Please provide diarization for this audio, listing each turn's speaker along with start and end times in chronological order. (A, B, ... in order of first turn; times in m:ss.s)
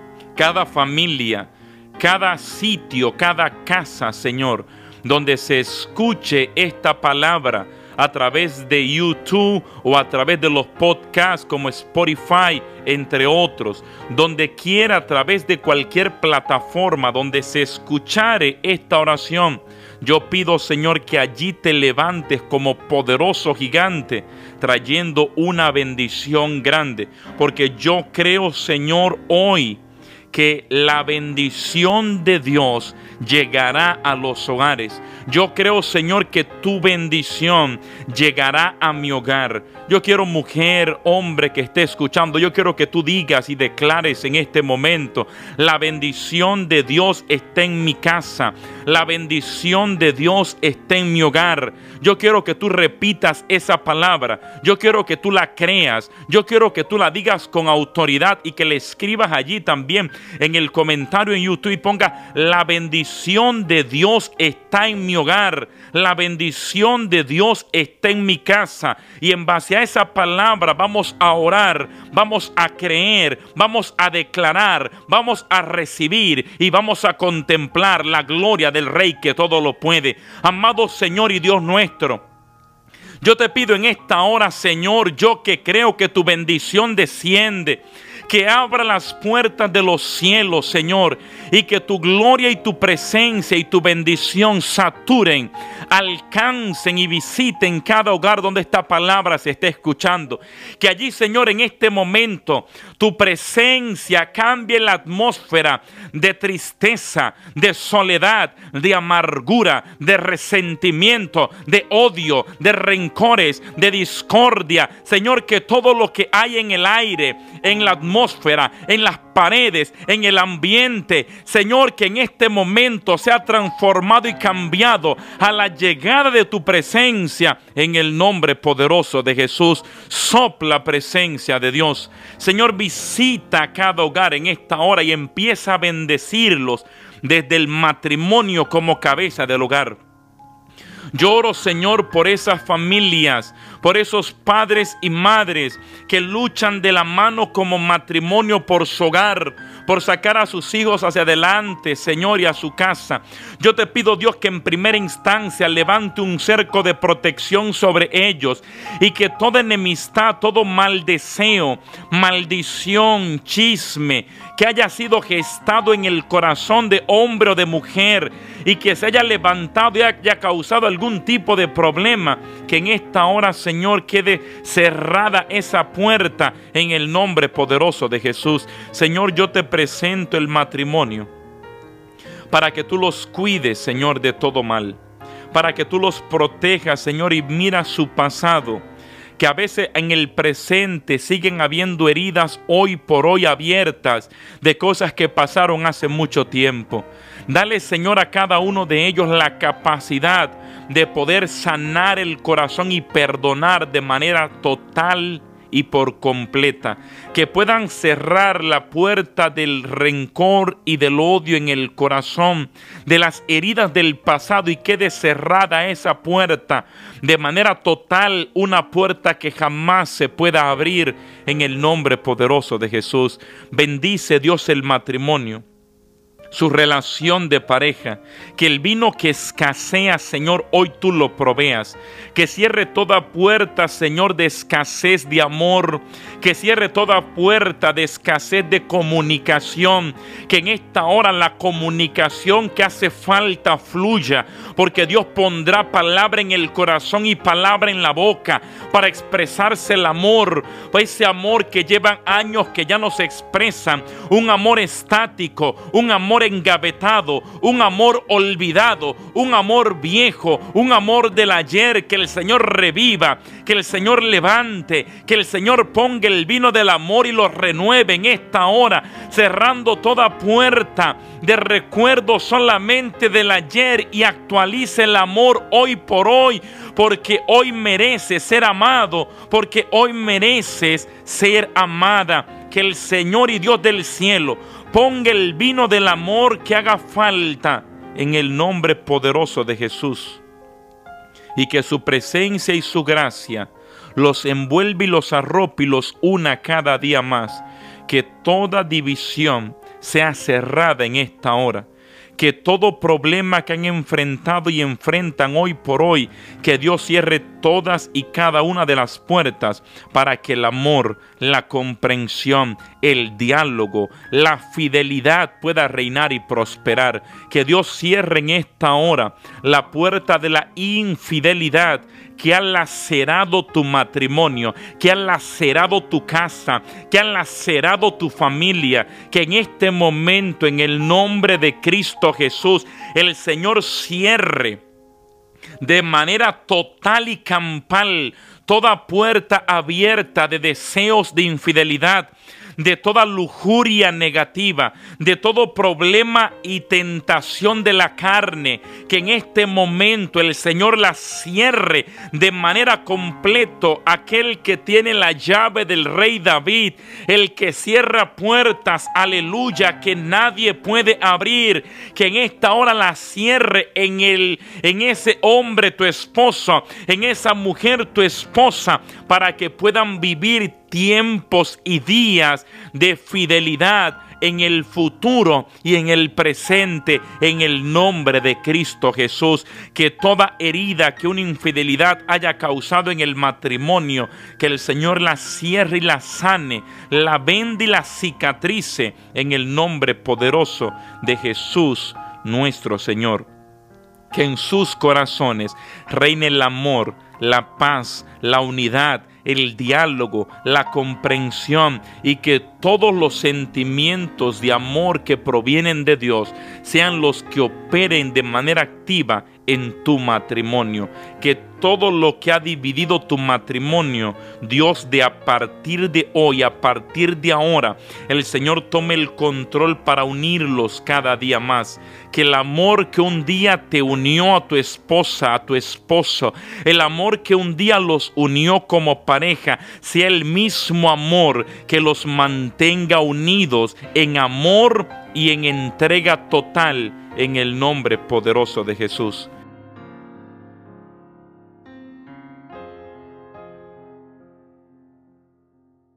0:00.3-1:22.2 A
1:23.2-2:20.0 A
2:21.1-3:01.3 A
3:02.5-3:05.0 A
3:05.5-3:08.8 A
3:09.4-3:45.6 A
3:46.5-4:50.4 A
4:51.5-5:34.8 A
5:35.8-6:33.5 A
6:34.3-7:19.5 A